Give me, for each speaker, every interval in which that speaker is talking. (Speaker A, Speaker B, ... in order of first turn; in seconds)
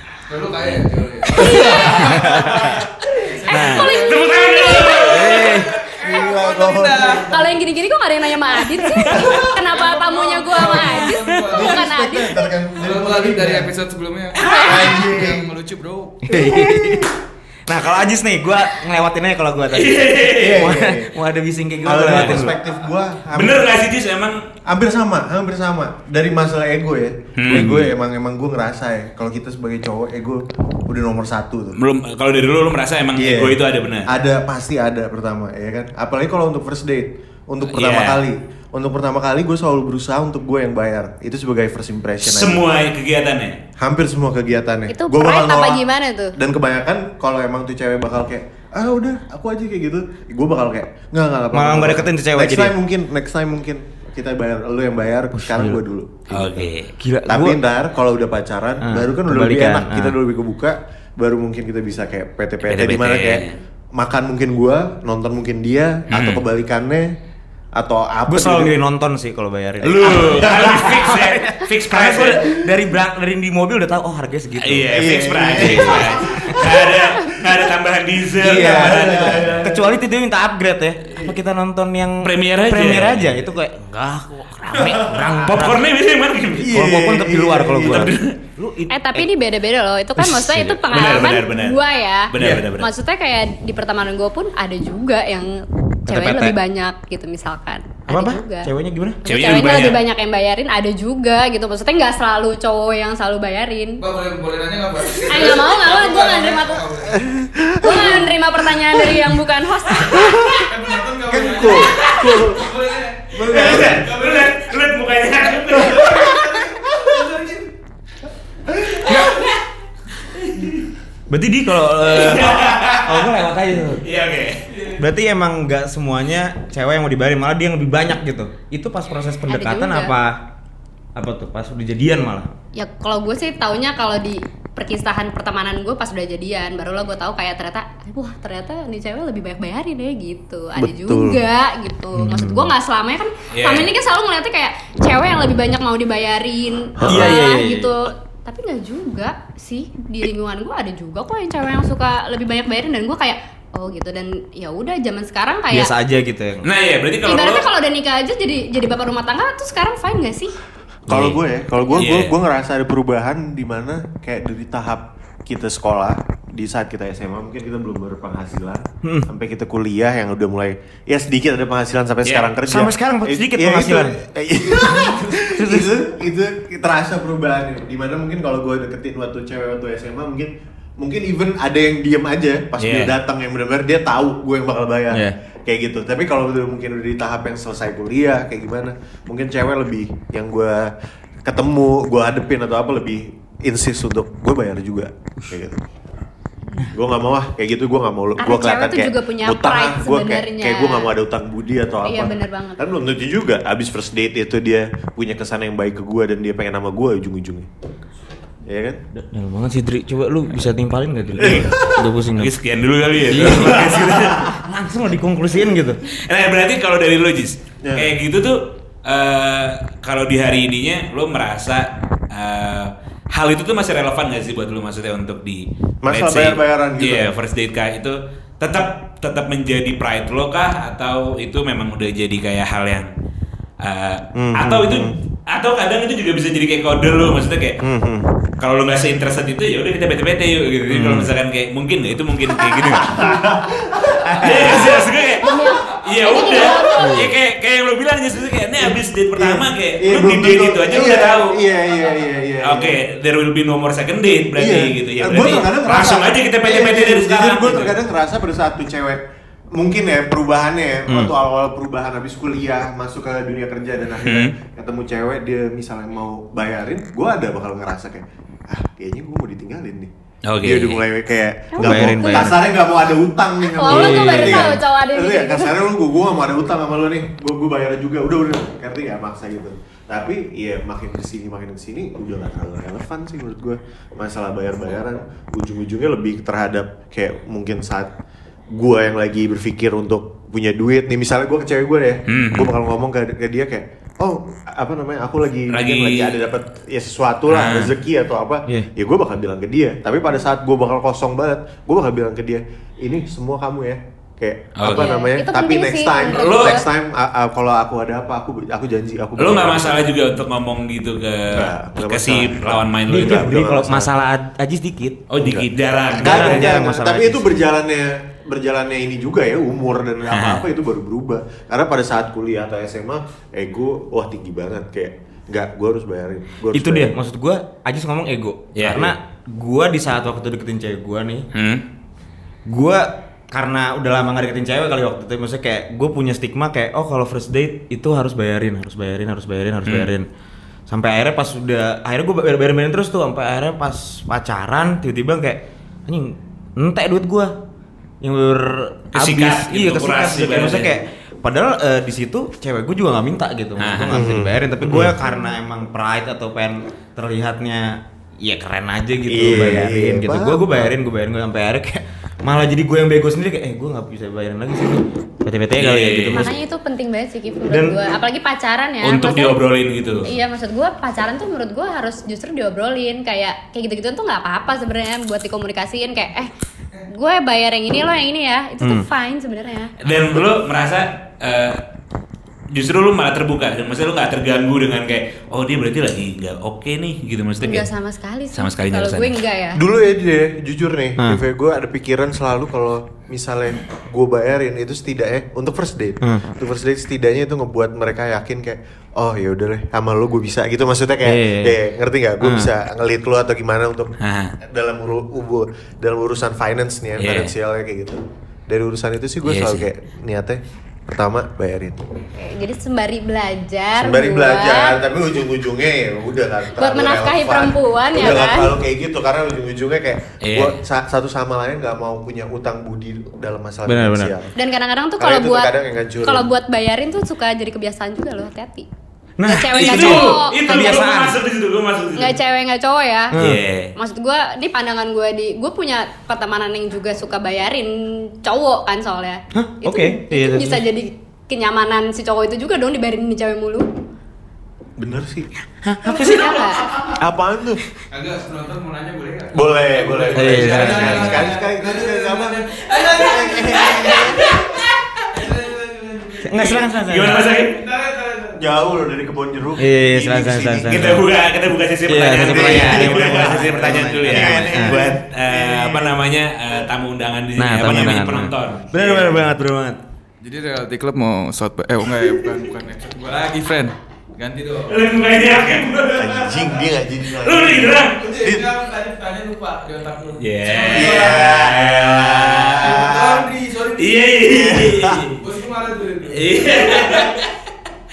Speaker A: 0.3-2.6, 3.1-7.4, 9.2-11.9, 12.8-16.3, 104.0-107.3, 110.5-114.7, 116.1-117.7, 124.7-125.0, 448.1-454.6, 455.3-458.6, 470.4-475.5, 478.1-481.7, 482.7-484.5, 485.3-487.4
Speaker B: 1.4-2.4, 3.5-5.6, 7.2-12.5, 14.4-14.9, 44.9-46.4, 88.9-98.7, 99.2-104.0, 105.3-106.9, 107.8-110.6, 129.5-130.1, 132.7-155.9, 157.2-160.6, 198.4-201.1, 202.0-202.8, 245.3-247.2, 271.7-272.6, 273.6-275.7, 304.9-306.9, 366.3-369.6, 370.2-376.5, 377.1-379.9, 387.6-389.8, 412.3-415.0, 416.8-418.7, 424.6-425.7, 426.2-428.9, 429.4-431.1, 432.1-433.4, 433.9-443.9, 446.0-446.9
Speaker C: 1.8-2.8, 3.5-3.9, 5.0-5.7, 16.2-22.5, 27.5-27.9, 51.5-52.7, 55.3-55.8, 57.0-57.6, 58.8-60.1, 68.3-75.0, 75.5-76.6, 78.4-85.8, 86.7-89.3, 90.2-90.8, 96.1-96.6, 98.1-99.2, 113.5-113.8, 119.0-119.3, 121.3-124.0, 125.0-130.4, 131.2-132.5, 142.1-142.7, 147.1-147.9, 155.7-156.7, 161.1-161.4, 169.0-169.3, 172.7-176.0, 185.1-185.3, 209.1-212.5, 213.3-216.0, 240.9-241.3, 247.0-247.3, 271.8-272.6, 273.9-274.8, 313.1-315.2, 316.2-317.6, 326.7-331.5, 332.6-340.3, 340.9-347.5, 348.2-366.5, 367.7-368.0, 396.2-396.5, 401.2-401.8, 402.4-402.7, 423.9-424.3, 429.4-431.4, 433.3-433.6, 439.5-440.8, 445.8-446.7, 450.3-451.4, 456.4-457.5, 459.8-461.2, 462.1-465.0, 467.6-470.0
Speaker D: 3.9-5.4, 19.7-20.7, 22.1-22.4, 23.3-24.4, 27.4-27.7, 31.8-34.1, 37.7-38.2, 42.2-43.6, 56.3-56.9, 62.7-63.6, 66.1-66.4, 69.8-72.5, 74.6-79.6, 82.2-83.4, 84.8-86.7, 87.8-88.4, 90.8-92.9, 99.2-100.0, 111.8-112.5, 113.4-116.5, 119.1-119.6, 120.3-120.9, 122.0-123.3, 124.0-124.7, 143.5-143.9, 156.6-157.7, 162.0-162.3, 172.2-172.5, 182.8-183.1, 212.3-214.5, 216.1-233.1, 233.8-237.8, 238.6-243.2, 244.4-251.6, 252.6-257.9, 264.2-264.5, 270.5-271.0, 292.3-292.7, 295.7-296.4, 297.5-297.9, 304.8-305.1, 306.3-306.8, 309.4-313.5, 315.3-316.7, 320.3-320.6, 328.8-329.1, 331.5-331.8, 349.1-350.9, 353.8-354.2, 365.8-366.5, 369.0-370.3, 380.0-381.8, 382.7-387.9, 388.5-389.4, 404.2-404.5, 407.2-407.5, 409.4-409.9, 420.4-420.8, 429.7-432.4, 433.4-433.9, 454.1-454.8, 457.0-457.8, 460.9-469.4, 474.9-476.7, 477.2-478.2, 480.4-483.0, 484.0-485.3, 486.3-487.5
Speaker E: 6.0-7.5, 11.5-13.7, 14.6-15.5, 16.3-17.1, 20.3-21.1, 21.8-23.7, 24.7-31.8, 33.1-42.6, 43.8-45.8, 46.3-56.7, 57.3-67.1, 67.7-68.7, 70.0-71.0, 72.1-72.7, 74.9-77.3, 78.4-80.0, 84.8-85.3, 86.6-88.1, 92.4-92.6, 107.1-109.2, 109.9-110.7, 111.3-112.7, 113.4-114.1, 115.8-117.1, 140.8-141.4, 147.0-147.4, 161.1-190.9, 191.4-195.8, 196.9-207.7, 208.7-209.0, 211.4-212.0, 213.5-214.5, 217.8-218.1, 226.0-227.3, 234.3-235.2, 237.8-238.3, 242.7-245.2, 248.8-253.0, 254.6-259.2, 259.8-270.1, 270.6-288.1, 288.7-310.0, 311.5-314.1, 315.4-327.1, 354.1-355.1, 359.3-360.9, 389.7-412.1, 413.9-424.5, 425.2-426.5, 445.0-445.5, 447.1-447.8, 449.5-454.5, 458.6-461.2, 462.4-466.2, 476.1-478.7, 480.9-483.5, 484.4-485.3